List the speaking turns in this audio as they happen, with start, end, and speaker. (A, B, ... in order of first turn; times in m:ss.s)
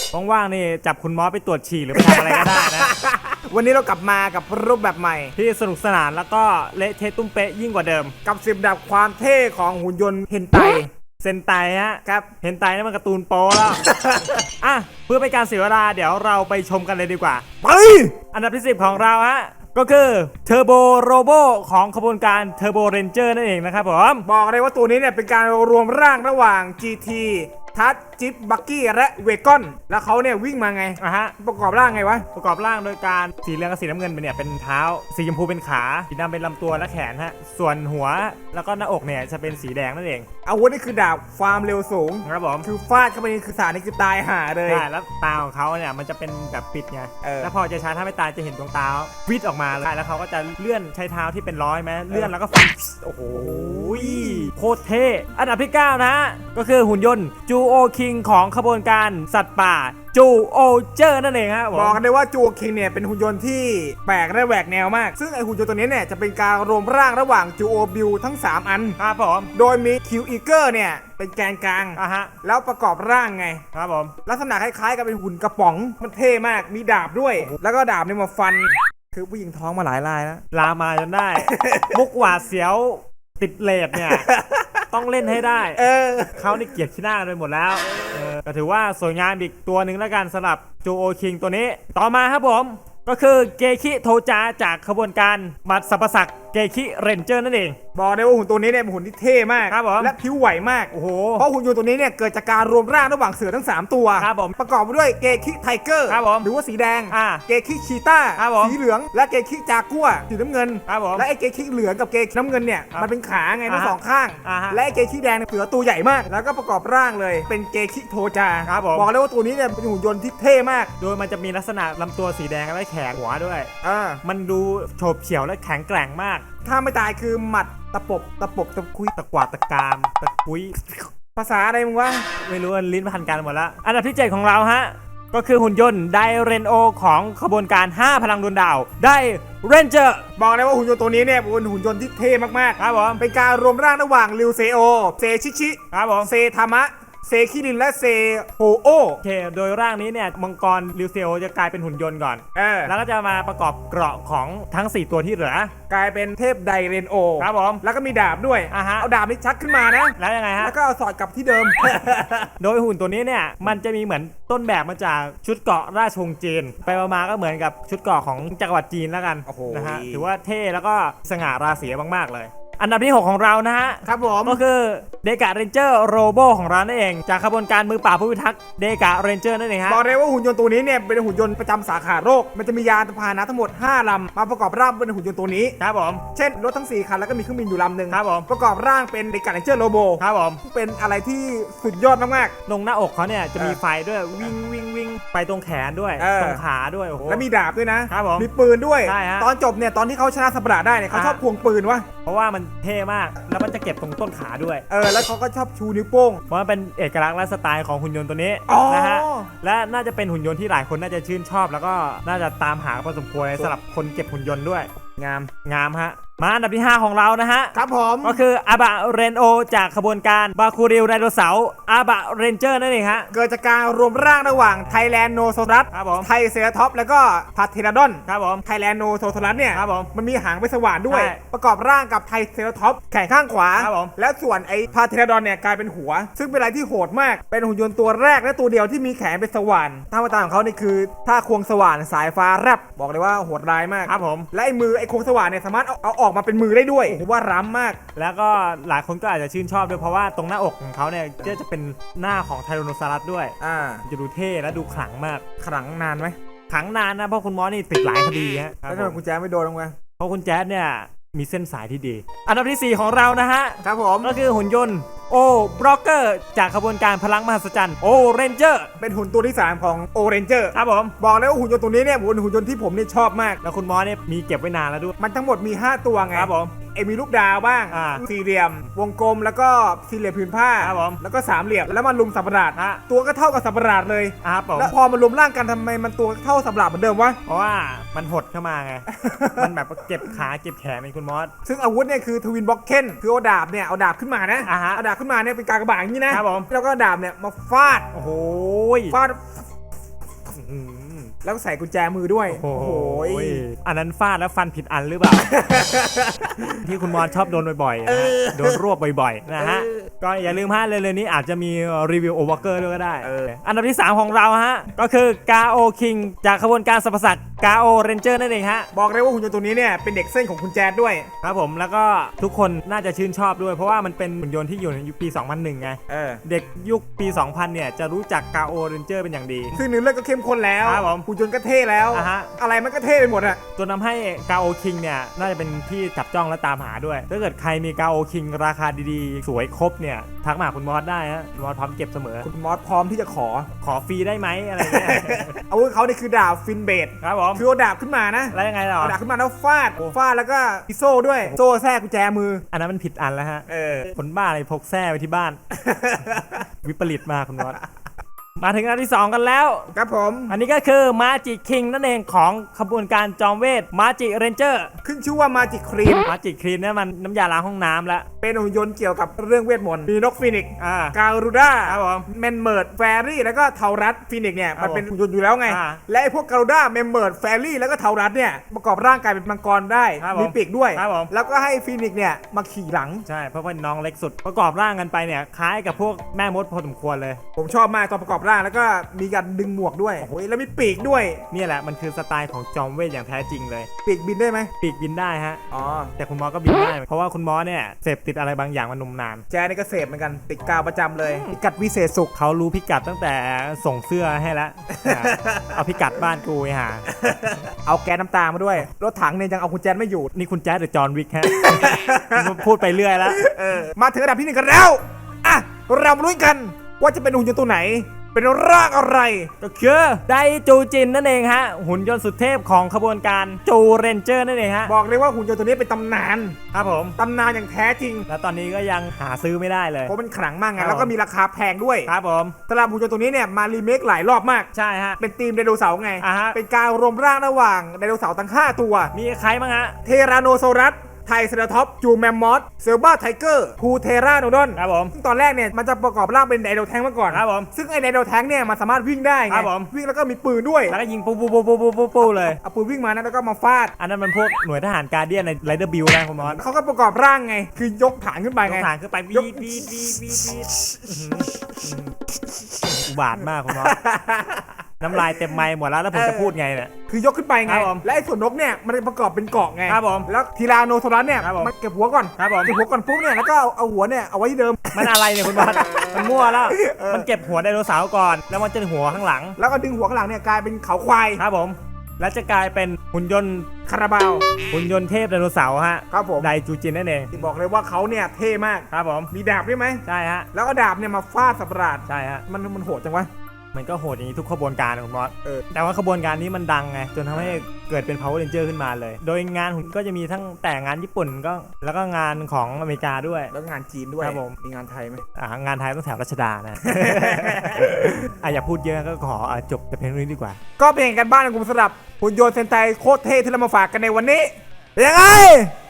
0:00.1-0:02.9 A
0:01.9-0:05.3 B
0:05.4-0:08.1 A
0:08.2-0:10.9 B
0:11.2-0:17.4 A
0:12.0-0:12.3 B
0:13.8-0:14.4 B
0:17.6-0:18.2 B
0:18.3-0:24.2 A
0:24.2-0:32.3 B
0:31.0-0:31.3 A
0:32.3-0:40.3 A
0:40.4-0:44.9 B
0:42.2-0:42.7 A
0:44.6-1:02.0 A
0:47.2-0:47.5 B
0:53.2-0:54.5 B
1:01.7-1:09.0 B
1:09.0-1:09.5 A
1:09.5-1:13.6 B
1:12.0-1:12.3 A
1:13.7-1:14.2 A
1:14.2-1:20.4 B
1:20.5-1:24.3 A
1:21.4-1:22.0 B
1:24.1-1:24.8 B
1:24.9-1:25.8 A
1:25.7-1:26.6 B
1:26.4-1:37.8 A
1:37.9-2:00.9 B
1:39.7-1:40.1 A
1:40.9-1:41.4 A
1:44.2-1:44.6 A
1:46.1-1:46.5 A
1:47.1-1:47.4 A
1:48.4-1:48.8 A
1:50.9-1:51.2 A
1:53.7-1:54.8 A
1:58.7-1:59.1 A
2:01.0-2:03.7 A
2:03.8-2:04.2 B
2:04.2-2:06.4 A
2:06.6-2:09.1 B
2:09.1-2:11.1 A
2:11.4-2:12.3 B
2:12.4-2:20.2 A
2:20.4-2:29.2 B
2:22.8-2:23.2 A
2:25.9-2:26.3 A
2:29.2-2:35.7 A
2:32.5-2:32.9 B
2:35.9-2:42.5 B
2:37.4-2:37.8 A
2:38.7-2:39.1 A
2:40.2-2:40.7 A
2:42.6-3:00.0 A
2:49.4-2:50.3 B
2:54.0-2:54.6 B
2:59.9-3:05.8 B
3:05.8-3:06.2 A
3:06.3-3:12.5 B
3:08.1-3:08.5 A
3:10.2-3:10.6 A
3:12.6-3:17.4 A
3:16.2-3:16.6 B
3:17.2-3:22.1 B
3:18.1-3:18.5 A
3:19.0-3:19.5 A
3:21.1-3:21.4 A
3:22.2-3:24.8 A
3:24.9-3:26.4 B
3:26.5-3:34.9 A
3:28.7-3:29.5 B
3:35.2-3:35.5 B
3:35.6-3:43.3 A
3:37.7-3:38.4 B
3:43.3-4:08.0 B
3:45.9-3:46.3 A
3:48.3-3:48.6 A
3:49.7-3:50.1 A
3:51.1-3:51.4 A
3:53.8-3:54.1 A
4:04.0-4:04.5 A
4:08.1-4:15.4 A
4:13.6-4:14.0 B
4:15.6-4:16.3 B
4:16.7-4:19.2 A
4:18.9-4:20.0 B
4:20.2-4:28.9 A
4:23.8-4:24.3 B
4:29.0-4:33.6 B
4:30.7-4:31.1 A
4:33.6-4:35.1 A
4:35.2-4:47.4 B
4:36.3-4:36.7 A
4:37.9-4:38.2 A
4:40.8-4:41.2 A
4:42.7-4:43.0 A
4:44.4-4:44.9 A
4:47.4-4:51.5 A
4:49.1-4:49.7 B
4:51.6-4:58.1 B
4:54.6-4:55.0 A
4:56.3-4:56.7 A
4:58.1-4:59.2 A
4:59.1-4:59.6 B
5:00.5-5:01.3 A
5:01.4-5:03.6 B
5:02.5-5:05.6 A
5:05.5-5:06.8 B
5:06.8-5:18.9 A
5:08.1-5:08.6 B
5:13.2-5:13.5 B
5:18.9-5:21.3 B
5:21.4-5:29.8 A
5:26.1-5:26.4 B
5:29.7-5:33.6 B
5:30.8-5:31.2 A
5:32.1-5:32.5 A
5:33.7-5:42.5 A
5:42.4-5:43.7 B
5:43.8-5:45.6 A
5:44.8-5:52.6 B
5:47.2-5:47.6 A
5:48.5-5:49.2 A
5:52.7-5:55.6 A
5:53.7-5:54.1 B
5:55.7-5:56.6 B
5:56.5-5:57.8 A
5:58.6-5:59.9 A
5:59.9-6:00.6 B
6:00.5-6:04.9 A
6:05.0-6:06.3 B
6:06.2-6:08.3 A
6:08.4-6:23.2 B
6:10.8-6:11.2 A
6:11.8-6:12.2 A
6:14.8-6:15.1 A
6:15.6-6:16.0 A
6:20.2-6:21.3 A
6:23.2-6:27.4 A
6:27.6-6:31.4 B
6:31.5-6:33.9 A
6:34.0-6:34.7 B
6:34.8-6:35.6 A
6:35.7-6:36.1 B
6:36.2-6:39.4 A
6:39.5-6:42.3 B
6:42.3-6:47.0 A
6:45.0-6:45.7 B
6:47.2-6:50.3 B
6:50.3-6:53.4 A
6:51.5-6:52.6 B
6:53.3-6:59.5 B
6:59.6-7:04.9 A
7:04.8-7:06.6 B
7:06.7-7:07.2 A
7:07.2-7:08.3 B
7:08.3-7:10.1 A
7:10.1-7:12.1 B
7:10.8-7:11.1 A
7:12.0-7:12.6 A
7:12.7-7:19.1 B
7:14.7-7:15.2 A
7:16.2-7:16.6 A
7:19.1-7:20.0 A
7:20.0-7:31.0 B
7:24.8-7:25.1 A
7:27.3-7:27.7 A
7:29.5-7:29.9 A
7:30.9-7:32.6 A
7:32.2-7:33.9 B
7:34.0-7:36.6 A
7:36.4-7:40.0 B
7:38.6-7:42.1 A
7:40.7-7:41.8 B
7:42.8-7:44.0 A
7:43.7-7:45.5 B
7:45.0-7:46.9 A
7:46.1-7:46.5 B
7:47.1-7:57.3 B
7:47.6-7:48.0 A
7:49.9-7:50.3 A
7:51.4-7:51.7 A
7:52.4-7:52.7 A
7:54.9-7:59.6 A
7:59.6-8:01.4 B
8:01.4-8:03.7 A
8:03.9-8:04.4 B
8:04.6-8:07.4 A
8:06.1-8:06.5 B
8:07.3-8:10.0 B
8:08.9-8:09.3 A
8:10.0-8:10.5 A
8:10.5-8:13.3 B
8:12.1-8:12.4 A
8:13.7-8:23.5 A
8:23.5-8:25.2 B
8:24.2-8:24.5 A
8:25.3-8:30.6 A
8:26.8-8:28.2 B
8:30.8-8:35.7 B